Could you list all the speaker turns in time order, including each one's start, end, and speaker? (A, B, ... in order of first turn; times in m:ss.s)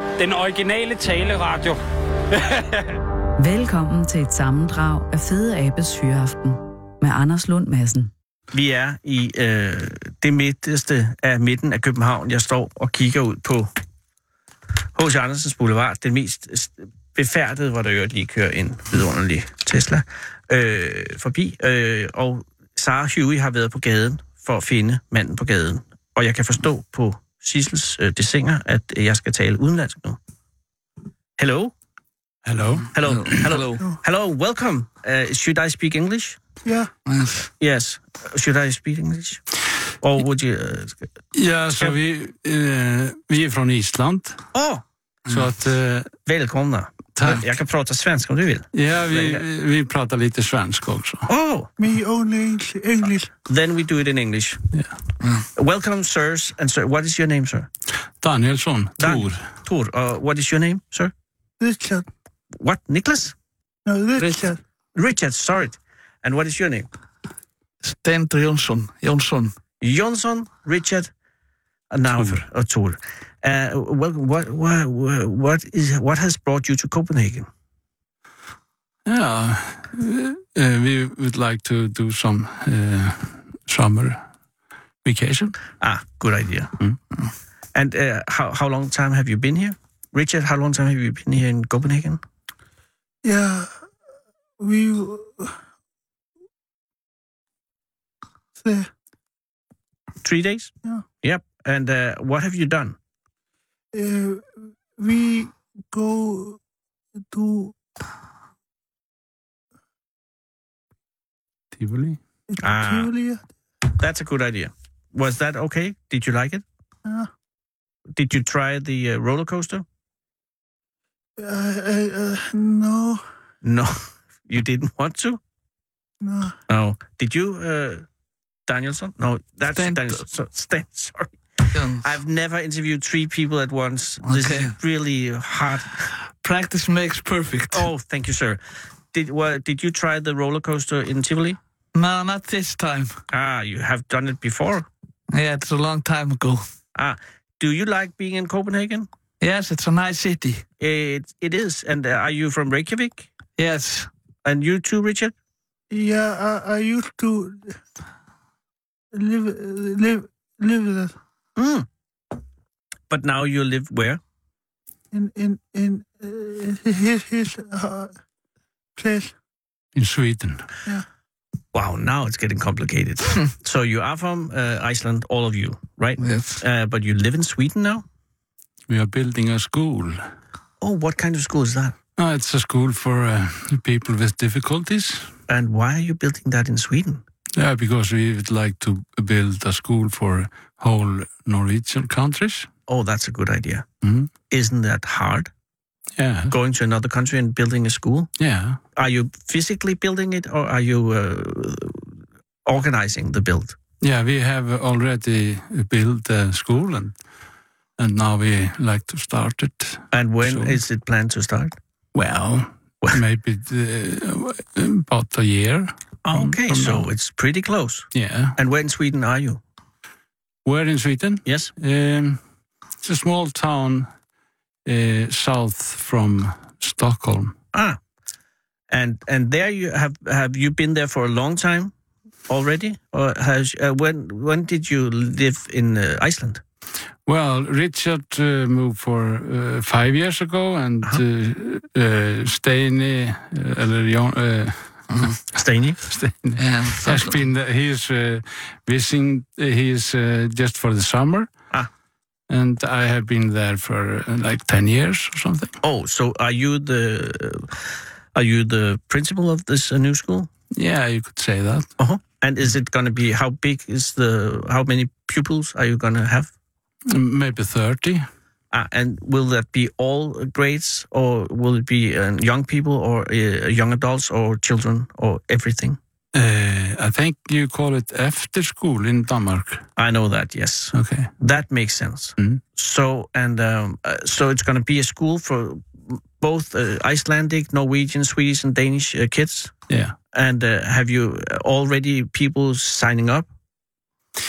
0:00.2-0:01.8 A
0:02.3-0:03.0 A
0:03.4-0:08.1 B
0:08.5-0:13.7 C
0:15.0-0:30.2 C
0:31.4-0:31.7 C
0:32.4-0:33.4 D
0:32.9-0:36.4 C
0:33.1-0:33.8 E
0:36.6-0:36.9 F
0:37.1-0:37.5 E
0:37.6-0:39.4 C
0:40.0-0:41.1 C
0:41.3-0:44.4 D
0:44.5-0:44.8 C
0:45.3-0:46.2 D
0:46.3-0:49.4 C
0:47.2-0:47.4 D
0:48.7-0:51.3 D
0:51.3-0:51.7 C
0:51.8-0:53.3 F
0:53.5-0:54.7 C
0:55.2-0:55.5 E
0:55.5-0:57.7 C
0:58.2-0:59.5 D
0:59.0-1:01.1 C
1:01.6-1:02.1 F
1:02.6-1:03.4 C
1:03.9-1:04.6 F
1:04.2-1:04.5 E
1:05.0-1:06.9 C
1:07.8-1:09.5 E
1:09.8-1:11.1 C
1:11.9-1:17.5 C
1:19.1-1:24.2 D
1:25.0-1:25.6 D
1:25.8-1:26.7 C
1:27.8-1:32.2 C
1:33.2-1:33.7 F
1:34.6-1:35.6 F
1:38.6-1:38.9 F
1:40.2-1:43.0 C
1:43.9-1:46.6 F
1:47.3-1:47.8 F
1:51.8-1:52.2 D
1:52.5-1:53.4 F
1:52.6-1:53.1 C
1:54.0-1:56.6 C
1:58.1-1:59.8 C
2:01.4-2:03.2 F
2:03.6-2:04.0 C
2:04.5-2:05.4 C
2:06.2-2:06.6 F
2:06.7-2:08.1 C
2:08.7-2:11.3 C
2:09.8-2:10.2 E
2:11.7-2:12.1 E
2:12.0-2:16.0 C
2:14.2-2:14.7 E
2:16.4-2:17.9 E
2:17.7-2:18.6 C
2:19.1-2:21.6 C
2:22.0-2:23.2 E
2:23.3-2:24.9 C
2:25.3-2:26.6 E
2:27.0-2:29.1 C
2:29.4-2:30.6 E
2:30.8-2:33.3 C
2:33.6-2:34.1 E
2:34.4-2:35.3 C
2:35.9-2:37.8 F
2:39.1-2:41.1 F
2:41.6-2:41.9 C
2:43.1-2:44.2 C
2:45.1-2:48.1 F
2:49.0-2:49.3 F
2:50.0-2:50.6 D
2:51.7-2:58.0 C
2:56.2-2:56.6 E
2:58.9-3:00.2 D
3:00.8-3:02.0 C
3:02.2-3:05.3 D
3:05.5-3:07.2 C
3:07.6-3:12.7 D
3:12.9-3:13.9 C
3:14.0-3:14.3 D
3:14.5-3:15.5 C
3:16.2-3:16.6 D
3:16.5-3:18.3 C
3:18.4-3:18.8 D
3:19.0-3:22.1 C
3:22.7-3:23.8 C
3:24.0-3:27.2 D
3:28.0-3:30.8 D
3:30.1-3:31.8 C
3:32.2-3:37.1 D
3:36.3-3:39.6 C
3:38.1-3:38.6 D
3:40.6-3:42.4 D
3:41.5-3:41.7 C
3:43.0-3:44.1 D
3:44.8-3:47.6 D
3:47.7-3:48.0 C
3:48.9-3:51.9 C
3:52.5-3:56.6 C
3:57.3-4:05.0 D
4:05.1-4:05.4 E
4:05.5-4:06.0 C
4:06.0-4:11.5 D
4:06.6-4:07.4 E
4:12.5-4:15.8 D
4:15.8-4:17.7 C
4:18.3-4:20.5 C
4:20.7-4:21.9 D
4:22.0-4:26.5 C
4:27.1-4:28.3 D
4:28.7-4:36.0 C
4:36.3-4:39.9 D
4:40.0-4:49.7 C
4:40.9-4:41.3 D
4:42.4-4:42.6 D
4:49.9-4:50.2 D
4:50.3-4:53.5 C